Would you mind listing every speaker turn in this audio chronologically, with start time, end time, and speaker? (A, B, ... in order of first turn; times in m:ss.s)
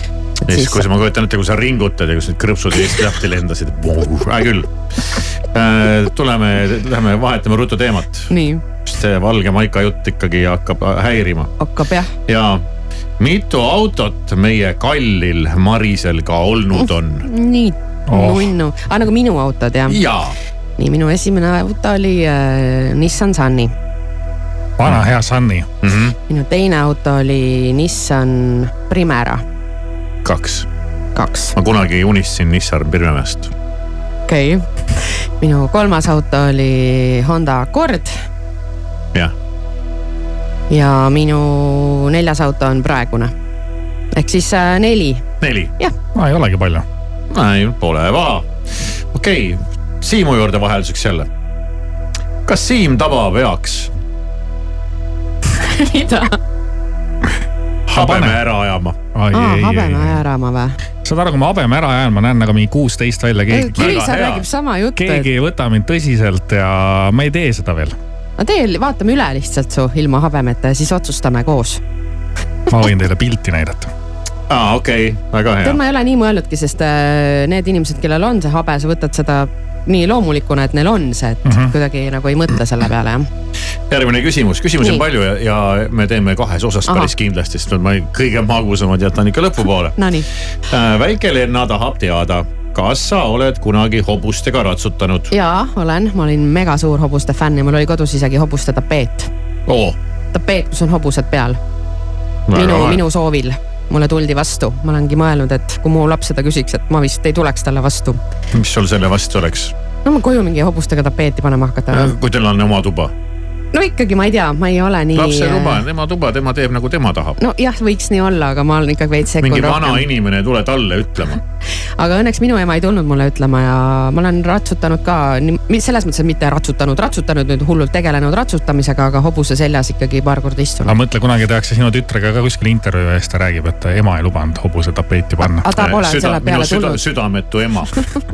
0:00.4-0:00.8 A
0:00.5-0:08.3 B
0:08.3-0:08.6 A
0:08.8-0:11.5 B
0:11.6-0:12.1 A
0:12.3-0:12.6 B
0:13.2-0:17.2 B
0:16.8-0:20.0 A
0:18.1-0:18.5 C
0:19.9-0:20.4 B
0:20.8-0:23.7 A
0:24.8-0:25.6 C
0:25.8-0:26.1 B
0:26.3-0:29.4 A
0:30.2-0:30.6 B
0:31.2-0:31.5 A
0:31.5-0:33.5 B
0:34.3-0:38.2 A
0:40.7-0:43.3 A
0:44.1-0:45.2 A
0:45.4-0:45.7 B
0:46.2-0:46.8 C
0:47.3-0:48.5 B
0:49.1-0:51.3 B
0:52.4-0:53.9 B
0:55.6-0:56.3 A
0:57.9-0:58.4 C
0:57.9-0:58.9 B
0:59.1-1:00.2 C
0:59.3-1:00.8 A
1:01.0-1:04.4 C
1:03.5-1:05.3 A
1:03.8-1:04.3 B
1:05.0-1:08.0 C
1:08.4-1:11.8 A
1:12.7-1:13.9 C
1:14.5-1:15.8 B
1:15.6-1:23.3 A
1:21.4-1:21.7 C
1:23.9-1:30.0 B
1:30.0-1:30.2 A
1:30.7-1:35.3 B
1:35.3-1:39.3 A
1:39.7-1:40.0 B
1:40.3-1:41.6 A
1:42.5-1:43.0 B
1:42.5-1:48.2 A
1:48.5-1:49.7 B
1:50.0-1:52.1 A
1:51.9-1:53.1 B
1:53.7-1:55.8 A
1:55.1-1:57.4 B
1:57.4-2:00.0 A
1:59.4-2:01.4 B
2:02.0-2:10.9 A
2:10.8-2:15.6 C
2:15.6-2:17.0 A
2:15.7-2:18.0 B